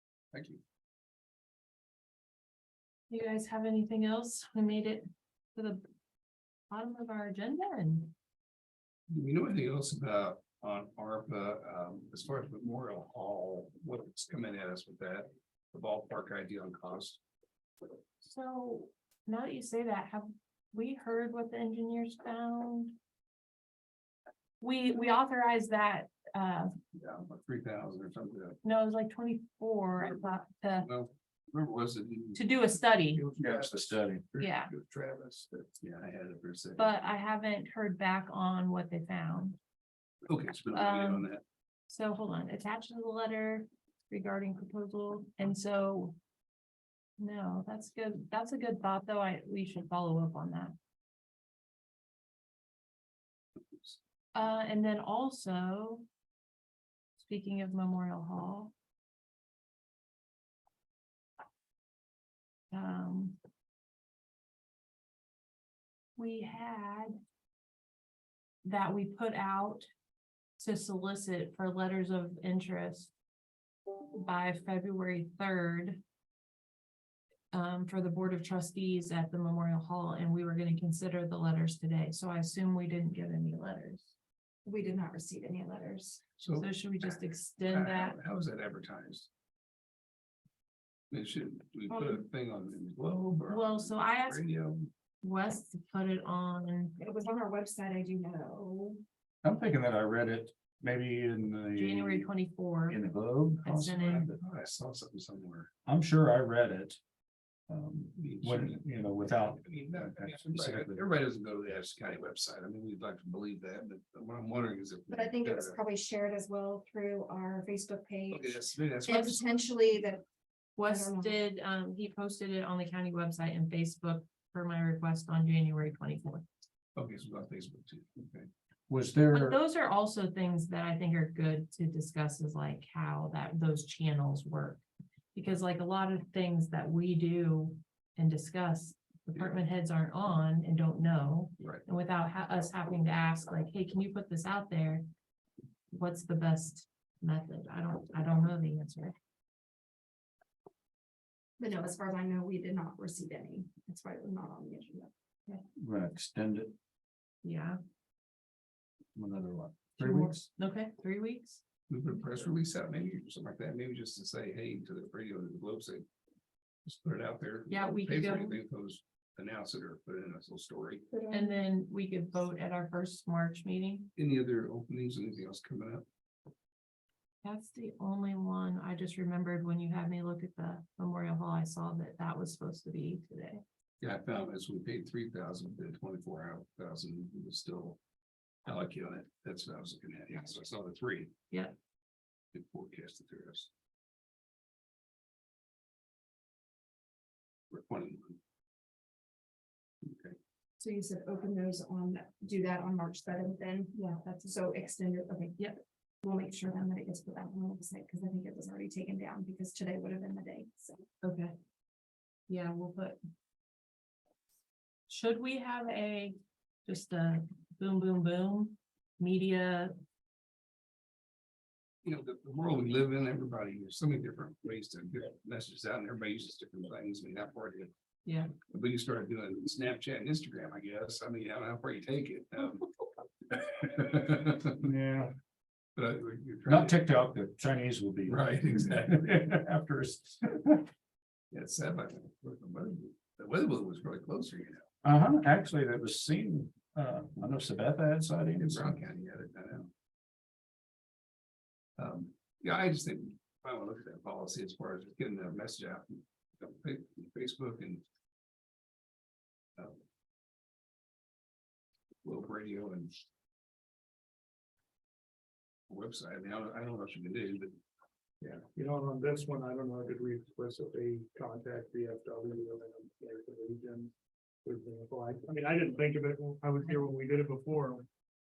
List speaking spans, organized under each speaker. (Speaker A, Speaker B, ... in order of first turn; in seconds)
Speaker A: 0.3-0.6, 9.1-17.2, 26.9-28.6, 30.8-32.5, 33.1-36.9, 40.2-41.4, 53.7-54.0, 86.4-89.3, 91.1-94.9, 104.0-105.7, 108.2-115.8, 118.3-119.5, 127.0-128.5, 139.3-139.6, 161.9-166.1, 166.8-171.1, 174.2-176.1, 184.0-188.0, 188.7-191.3, 192.5-193.7, 197.7-198.4, 200.0-200.4, 222.0-227.9, 228.6-232.9, 233.5-234.9, 236.0-237.0, 238.3-239.2, 241.5-244.9, 248.6-249.9, 252.0-258.0, 262.2-263.2, 265.9-267.8
Speaker B: 3.1-5.8, 6.7-8.1, 18.2-23.0, 24.6-26.7, 28.6-30.9, 32.3-33.2, 34.4-34.7, 36.8-39.6, 40.7-41.3, 41.9-46.2, 47.2-50.8, 54.3-56.1, 57.2-58.7, 62.7-63.4, 66.2-67.2, 68.6-69.9, 70.6-73.1, 74.2-76.0, 77.5-84.1, 86.5-88.2, 93.5-94.4, 95.2-97.0, 101.8-103.0, 103.6-104.3, 119.1-119.4, 120.8-126.5, 129.3-134.8, 135.3-145.1, 145.9-149.2, 157.4-157.8, 160.0-161.6, 167.7-168.6, 171.3-174.1, 177.4-183.6, 211.2-211.6, 212.5-213.2, 215.1-219.9, 228.3-228.5
Speaker C: 33.4-34.3, 99.4-102.3, 102.9-104.3, 105.9-107.0, 107.7-111.0, 128.9-129.6, 155.8-156.8, 159.2-160.5, 234.8-235.3, 236.7-240.9, 245.0-249.0
Speaker D: 84.7-86.2, 91.9-92.3, 97.0-99.0, 115.1-120.2, 120.9-121.4, 151.6-155.1, 171.1-171.7, 200.8-205.7, 206.2-211.0
Speaker E: 268.4-274.1, 274.6-278.0